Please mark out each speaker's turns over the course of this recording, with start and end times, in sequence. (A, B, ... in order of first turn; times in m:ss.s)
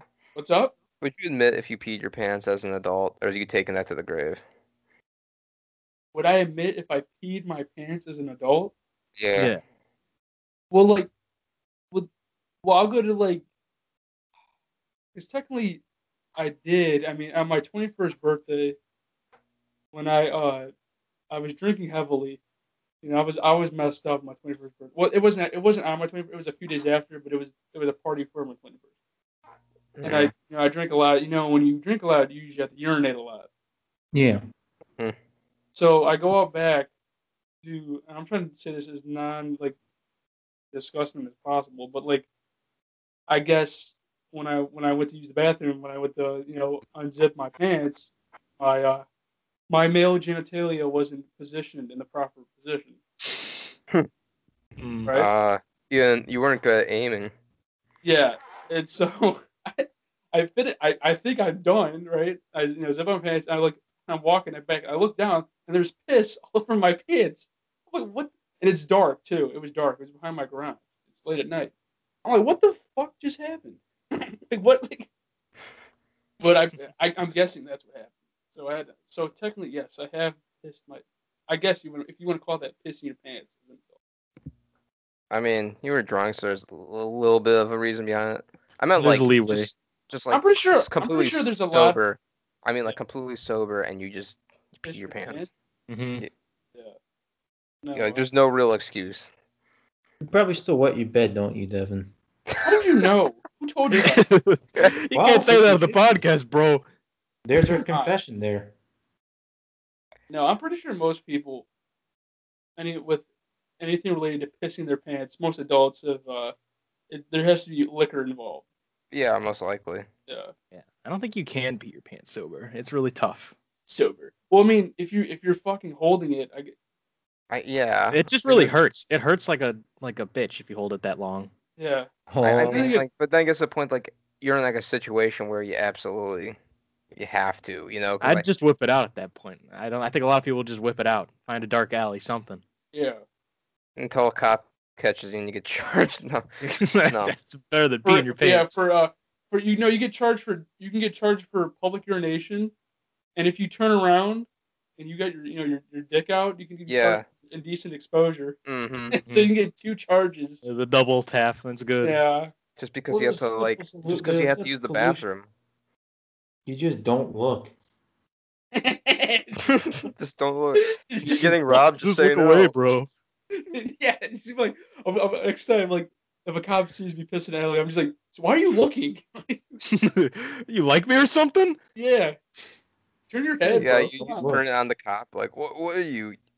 0:00.4-0:00.7 A
0:01.0-0:04.4 B
0:06.1-0:08.7 A
0:09.2-0:09.5 B
0:10.7-0:11.1 A
0:12.6-0:13.4 A
0:15.1-0:15.8 A
0:16.4-0:18.8 A
0:19.9-0:20.7 A
0:21.3-0:22.4 A
0:23.0-0:28.8 A
0:30.0-0:30.3 B
0:30.0-0:33.5 A
0:34.1-0:34.4 C
0:35.7-0:36.9 A
0:37.6-0:39.8 A
0:40.7-0:42.3 A
0:43.3-0:49.0 A
0:49.7-0:53.0 A
0:54.8-0:55.1 D
0:55.1-0:57.3 B
0:58.0-1:11.7 A
1:12.2-1:15.1 A
1:16.4-1:23.8 A
1:25.3-1:35.4 B
1:29.0-1:29.7 D
1:30.3-1:32.0 A
1:34.8-1:35.5 A
1:35.9-1:36.2 D
1:37.8-1:38.2 A
1:37.9-1:39.3 B
1:40.2-1:42.1 C
1:42.5-1:42.8 B
1:42.6-1:44.2 A
1:43.9-1:46.8 D
1:45.1-1:46.2 C
1:47.4-1:48.7 C
1:47.8-1:48.1 A
1:50.3-1:51.6 A
1:52.8-1:53.2 A
1:53.8-1:56.5 A
1:57.1-1:58.6 A
1:59.1-2:00.1 B
2:00.3-2:00.5 A
2:00.7-2:03.5 D
2:03.9-2:06.7 A
2:07.5-2:08.2 B
2:08.1-2:11.5 D
2:08.4-2:08.7 A
2:11.8-2:12.1 A
2:12.3-2:12.9 C
2:12.4-2:16.6 B
2:12.6-2:13.0 A
2:17.1-2:18.4 B
2:18.2-2:22.6 D
2:22.9-2:23.2 A
2:24.0-2:26.4 B
2:26.6-2:28.7 D
2:28.0-2:32.7 A
2:33.4-2:38.6 A
2:36.9-2:37.2 B
2:38.6-2:39.2 B
2:39.1-2:40.6 A
2:39.2-2:39.5 D
2:40.6-2:42.2 D
2:42.0-2:42.5 A
2:42.8-2:45.5 B
2:43.1-2:45.2 C
2:46.6-2:47.7 C
2:48.7-2:49.6 A
2:49.7-2:52.7 B
2:50.8-2:51.5 A
2:51.7-2:53.1 D
2:53.5-2:59.8 A
2:59.9-3:01.8 D
3:01.9-3:02.4 A
3:03.3-3:04.5 A
3:03.6-3:04.6 C
3:03.8-3:06.4 B